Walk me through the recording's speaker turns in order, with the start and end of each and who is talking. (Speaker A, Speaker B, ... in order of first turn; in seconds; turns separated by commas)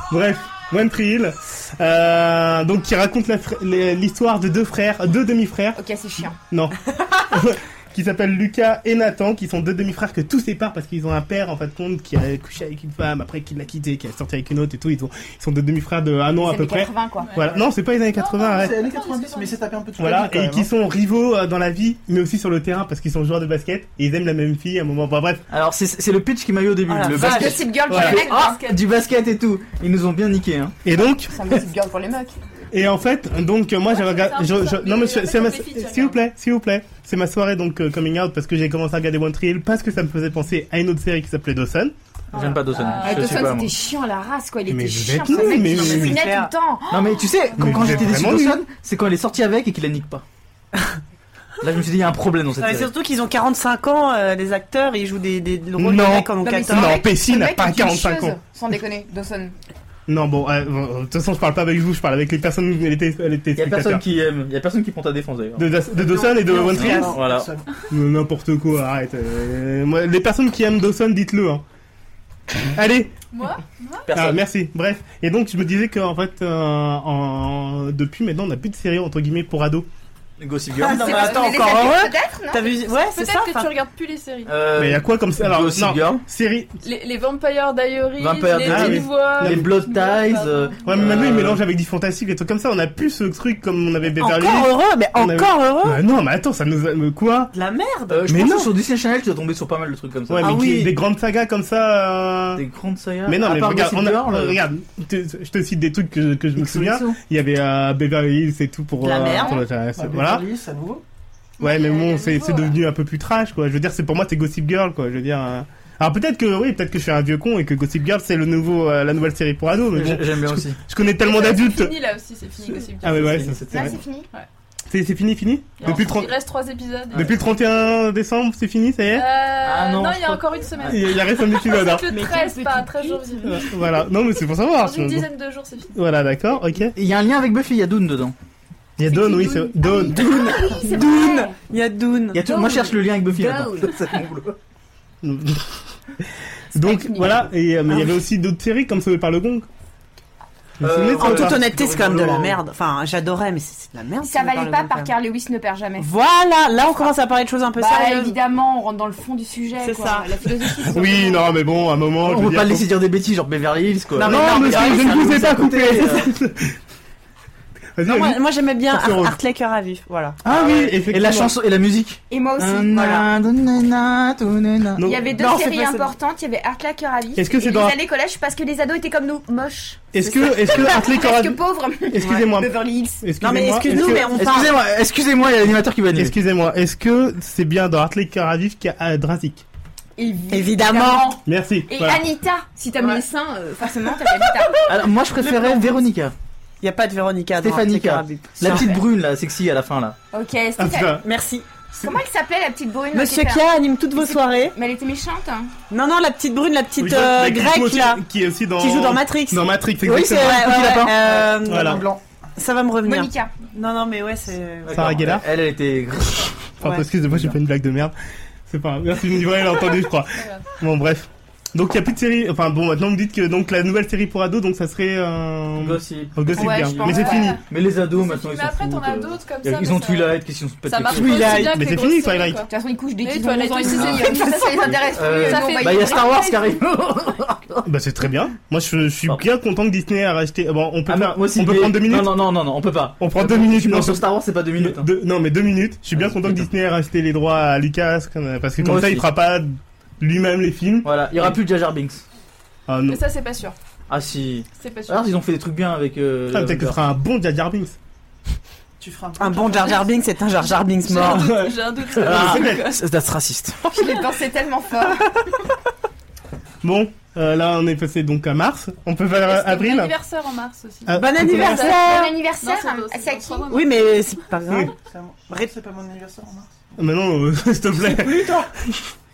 Speaker A: 0.1-5.8, Speaker B: 5.7-6.4, Speaker A: 6.4-18.8, Speaker B: 16.4-17.3, Speaker C: 17.2-19.6, Speaker D: 18.5-20.7, Speaker A: 20.0-25.4, Speaker E: 25.5-30.7, Speaker F: 26.9-27.7, Speaker B: 27.1-28.6, Speaker A: 27.9-28.2, Speaker C: 28.1-28.6, Speaker A: 30.8-31.4, Speaker B: 30.9-32.4, Speaker A: 32.7-41.9, Speaker C: 33.9-36.2, Speaker E: 42.3-43.7, Speaker C: 42.6-43.5, Speaker B: 43.0-47.3, Speaker A: 44.7-46.2, Speaker F: 45.3-46.5, Speaker E: 46.9-50.2, Speaker A: 47.6-48.6, Speaker E: 51.6-52.9, Speaker F: 52.6-57.0, Speaker A: 55.8-58.4, Speaker B: 56.4-59.5, Speaker A: 60.1-64.0, Speaker E: 63.5-65.7, Speaker A: 65.6-67.2, Speaker F: 66.1-67.1, Speaker D: 66.5-67.7, Speaker E: 66.7-67.5, Speaker A: 67.9-71.6, Speaker A: 72.6-73.1, Speaker C: 73.3-74.1, Speaker E: 74.1-74.4, Speaker A: 74.1-79.9, Speaker E: 80.4-81.5, Speaker F: 80.7-83.7, Speaker B: 80.9-82.8, Speaker C: 83.0-84.5, Speaker E: 84.5-86.2, Speaker A: 84.8-86.7, Speaker C: 86.8-91.2, Speaker E: 88.2-91.6, Speaker A: 88.6-89.7, Speaker A: 90.8-97.5, Speaker F: 94.2-96.0, Speaker F: 97.5-98.7, Speaker E: 98.1-100.6, Speaker A: 98.3-98.7, Speaker A: 100.3-102.6, Speaker F: 100.4-100.9, Speaker E: 102.5-104.6, Speaker A: 103.3-110.4, Speaker E: 106.6-107.2, Speaker F: 109.0-109.6, Speaker D: 109.9-111.0, Speaker A: 111.6-122.0, Speaker C: 111.7-112.6, Speaker B: 111.9-112.6, Speaker E: 119.9-120.8, Speaker C: 121.2-123.5, Speaker A: 122.6-124.0, Speaker E: 123.0-124.0, Speaker B: 123.7-124.3, Speaker A: 124.9-126.3, Speaker C: 125.8-127.4, Speaker E: 125.8-126.1, Speaker A: 127.1-129.3, Speaker C: 129.1-133.7, Speaker E: 129.6-131.0, Speaker A: 130.8-132.1, Speaker B: 132.1-133.7, Speaker A: 133.4-135.3, Speaker C: 134.7-136.0, Speaker A: 135.9-136.9, Speaker E: 136.9-138.3, Speaker A: 139.0-140.5, Speaker B: 139.0-141.5, Speaker F: 140.1-142.4, Speaker E: 142.3-144.6, Speaker B: 142.4-144.2, Speaker A: 145.2-145.7, Speaker A: 146.7-149.7, Speaker B: 146.7-147.4, Speaker A: 150.8-151.7, Speaker E: 150.8-152.6, Speaker F: 151.2-155.1, Speaker B: 154.2-156.1, Speaker F: 156.0-158.4, Speaker B: 157.8-161.5, Speaker F: 159.8-160.5, Speaker A: 160.8-162.9, Speaker E: 162.2-166.3, Speaker F: 164.2-166.0, Speaker A: 164.2-166.8, Speaker A: 168.0-169.3, Speaker F: 168.0-170.9, Speaker A: 170.4-171.5, Speaker E: 171.1-175.1, Speaker B: 172.3-173.2, Speaker F: 172.9-173.3, Speaker A: 174.9-175.2, Speaker B: 175.0-183.2, Speaker F: 175.3-176.1, Speaker A: 177.3-177.9, Speaker A: 180.1-184.4, Speaker F: 180.2-180.5, Speaker F: 183.4-184.8, Speaker E: 183.9-186.3, Speaker A: 186.2-189.6, Speaker B: 190.2-194.8, Speaker F: 190.5-191.3, Speaker A: 191.4-192.2, Speaker F: 194.7-195.9, Speaker E: 194.8-196.3, Speaker F: 196.8-198.9, Speaker E: 197.6-200.2, Speaker B: 198.7-199.0, Speaker B: 200.3-201.2, Speaker A: 200.8-201.2, Speaker F: 201.2-201.7, Speaker B: 202.0-203.7, Speaker F: 203.1-204.7, Speaker B: 204.2-205.7, Speaker F: 205.9-208.2, Speaker A: 207.0-210.8, Speaker F: 208.8-209.6, Speaker E: 210.0-211.2, Speaker F: 210.3-215.0, Speaker D: 211.1-212.2, Speaker A: 211.6-212.0, Speaker B: 213.0-213.5, Speaker E: 214.8-216.7, Speaker A: 214.9-215.4, Speaker A: 216.8-218.1, Speaker E: 217.3-217.6, Speaker A: 218.7-227.6, Speaker C: 220.3-220.7, Speaker E: 225.8-231.8, Speaker B: 226.6-227.5, Speaker C: 226.9-232.7, Speaker A: 231.2-232.6, Speaker B: 232.7-236.6, Speaker C: 233.2-236.3, Speaker E: 233.9-237.9, Speaker A: 237.8-242.3, Speaker E: 241.1-245.1, Speaker A: 243.2-244.2, Speaker A: 244.8-251.6, Speaker E: 246.1-246.7, Speaker E: 248.8-249.2, Speaker E: 251.0-252.2, Speaker A: 252.9-253.2, Speaker C: 253.1-253.8, Speaker E: 254.1-257.0, Speaker C: 254.8-255.3, Speaker A: 256.5-257.9, Speaker D: 259.0-260.2, Speaker F: 259.4-261.6, Speaker C: 260.9-263.0, Speaker A: 261.2-262.9, Speaker E: 262.1-263.8, Speaker B: 263.9-265.3, Speaker A: 266.8-270.1, Speaker C: 269.4-274.2, Speaker A: 271.1-271.9, Speaker F: 271.1-272.3, Speaker B: 271.6-273.7, Speaker F: 273.7-274.9, Speaker D: 274.9-276.9, Speaker A: 277.0-279.0, Speaker F: 278.0-278.7